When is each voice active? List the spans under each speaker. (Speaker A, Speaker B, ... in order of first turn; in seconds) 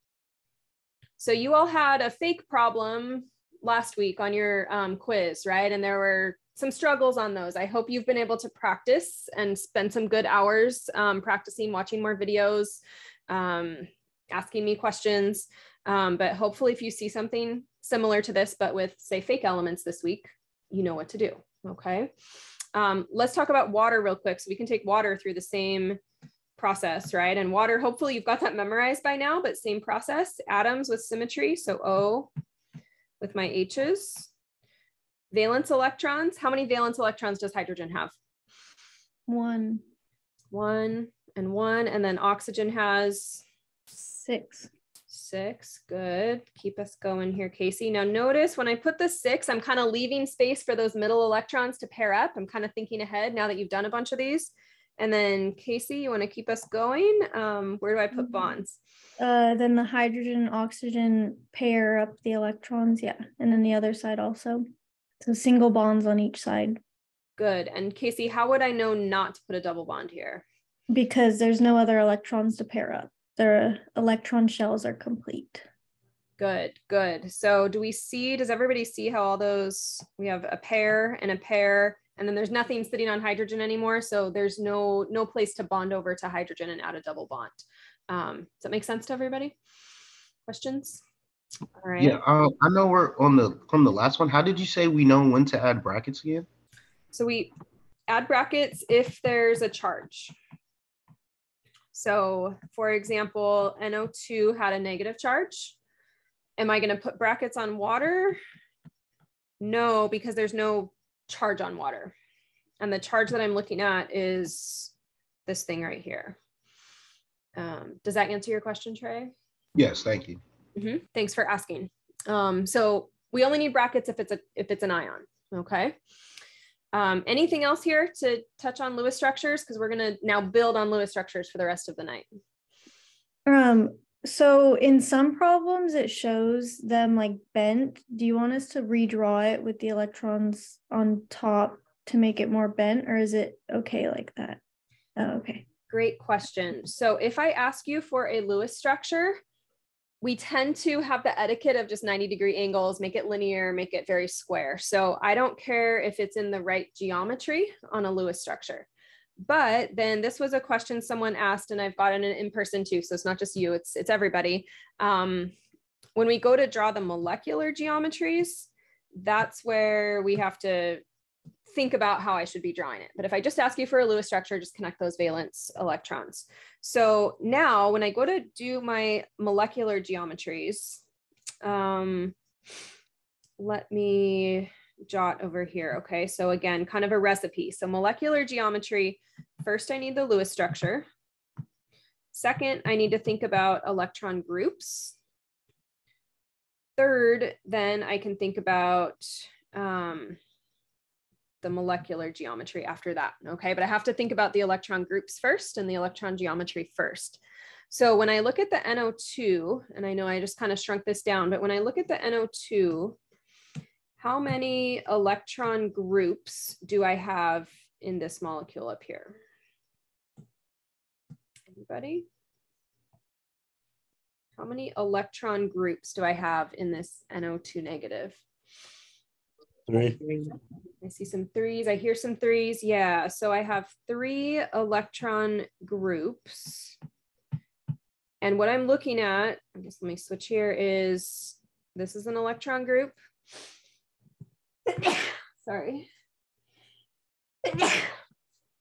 Speaker A: 1.2-22.1, 22.7-26.0, 26.6-32.3, 33.2-34.3, 35.3-38.1, 40.5-43.4, 45.1-58.8, 67.4-70.4, 76.4-89.5, 90.5-91.0, 91.8-92.2, 97.1-97.5, 98.1-100.3, 101.9-105.8, 106.6-108.4, 109.6-112.1, 112.8-114.9, 115.5-116.3, 117.5-119.3, 120.8-126.0, 126.9-132.3, 145.9-149.4, 150.2-158.9, 159.4-165.5, 166.2-171.0, 171.7-181.0, 181.6-182.3, 183.6-191.1, 192.3-195.2, 197.0-200.4, 201.6-213.2, 214.2-219.4, 221.7-222.2, 224.6-228.4, 231.0-236.9, 238.4-243.1, 244.9-246.1, 247.7-248.0
Speaker B: 39.3-39.8, 43.9-44.7, 59.2-64.6, 65.2-66.8, 70.9-75.6, 133.5-144.6, 145.2-145.7
Speaker C: 92.0-96.5, 119.8-120.4